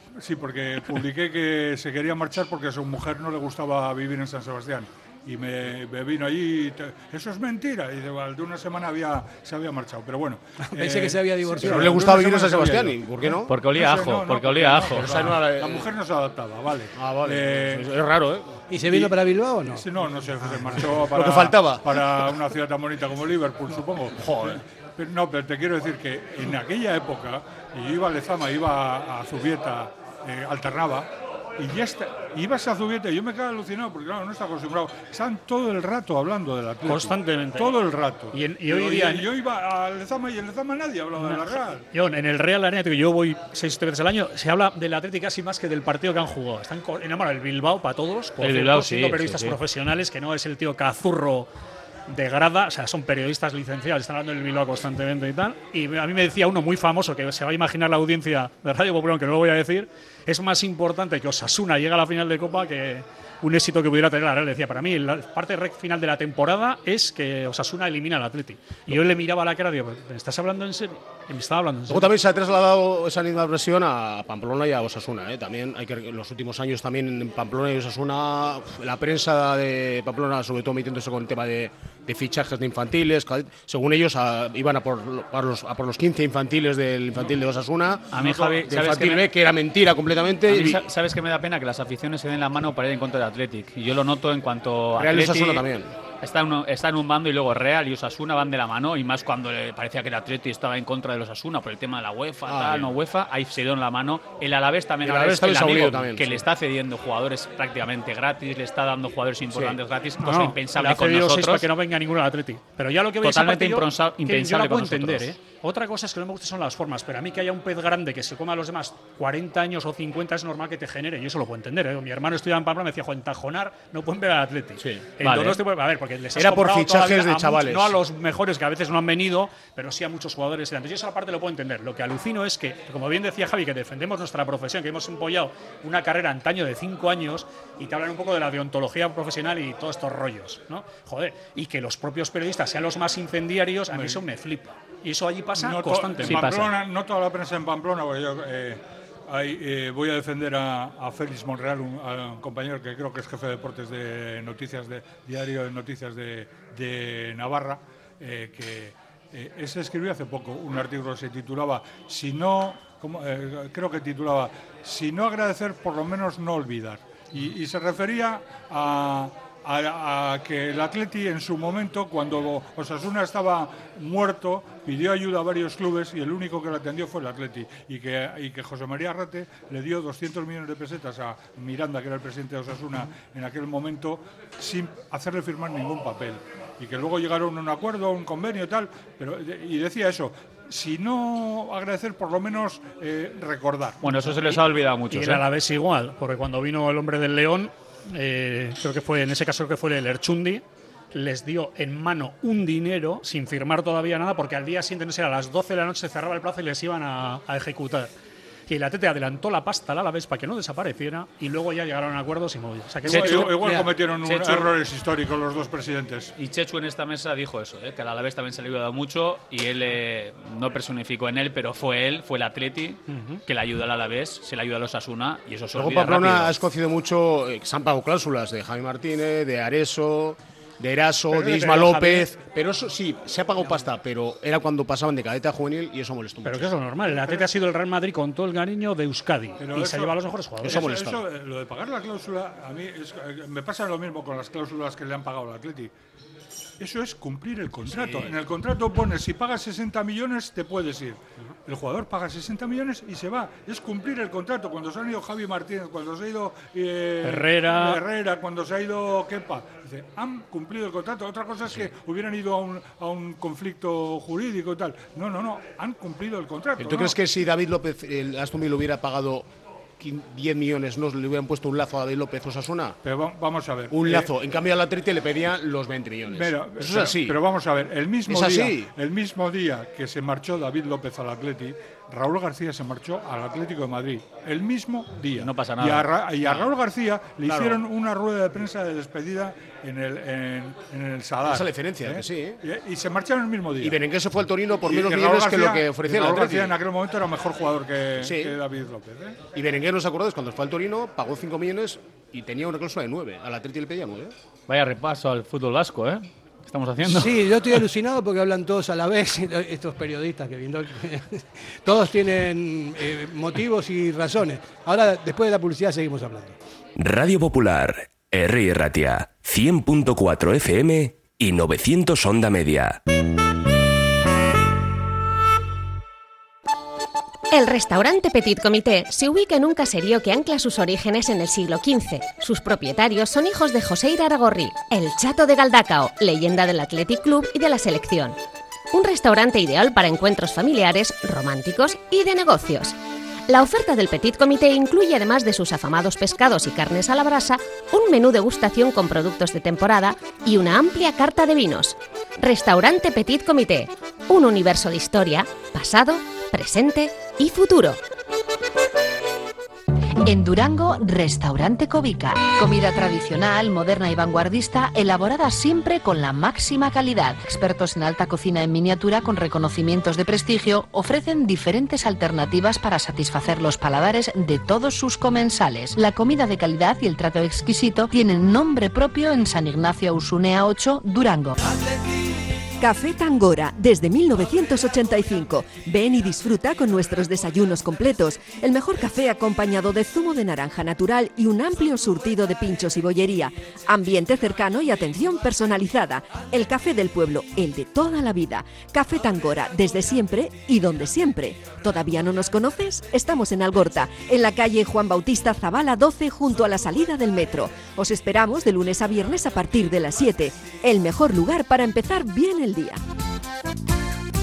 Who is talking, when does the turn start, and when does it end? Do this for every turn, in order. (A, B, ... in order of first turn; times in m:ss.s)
0:00.2-0:17.9 A
0:10.7-0:12.1 B
0:11.6-0:13.6 C
0:13.5-0:15.1 D
0:14.9-0:15.9 C
0:17.0-0:18.6 C
0:18.7-0:20.8 B
0:18.9-0:19.1 A
0:19.6-0:41.9 A
0:21.1-0:21.8 C
0:36.9-0:39.3 E
0:41.2-0:51.5 E
0:48.4-0:49.6 D
0:52.1-1:12.1 E
1:11.9-1:30.8 C
1:28.1-1:29.3 D
1:30.5-1:35.6 D
1:35.0-1:35.9 C
1:36.2-1:51.7 D
1:42.5-1:42.9 C
1:45.0-1:46.4 C
1:49.5-1:49.8 C
1:50.2-2:26.7 E
1:53.2-1:55.4 D
2:04.8-2:05.1 C
2:05.2-2:05.6 D
2:06.4-2:08.0 C
2:23.9-2:24.2 A
2:25.6-3:14.3 A
2:26.2-2:26.8 D
3:14.0-3:15.5 D
3:15.1-3:28.1 E
3:28.7-3:33.7 E
3:33.0-3:36.4 A
3:33.1-3:33.9 B
3:34.2-3:34.7 D
3:36.4-3:46.6 D
3:43.1-3:43.4 E
3:45.7-3:56.7 C
3:51.3-3:52.3 E
3:56.4-4:00.9 E
3:57.1-3:57.5 A
3:59.6-4:05.9 A
4:00.6-4:01.3 C
4:06.8-4:27.2 A
4:08.0-4:08.3 E
4:17.2-4:18.0 E
4:26.8-4:29.5 C
4:30.0-4:33.0 C
4:33.0-4:34.3 A
4:33.9-4:37.4 C
4:36.3-4:54.0 A
4:38.3-4:38.9 C
4:45.4-4:46.1 D
4:51.4-4:52.6 C
4:53.8-4:56.8 C
4:54.8-4:59.4 A
4:58.2-4:58.6 C
4:59.5-5:04.3 C
5:04.7-5:07.8 D
5:07.0-5:16.6 B
5:17.0-5:23.0 F
5:27.5-5:38.4 G
5:38.9-5:43.0 G
5:43.5-5:58.0 G
6:00.2-6:21.6 H
6:22.8-6:53.0 I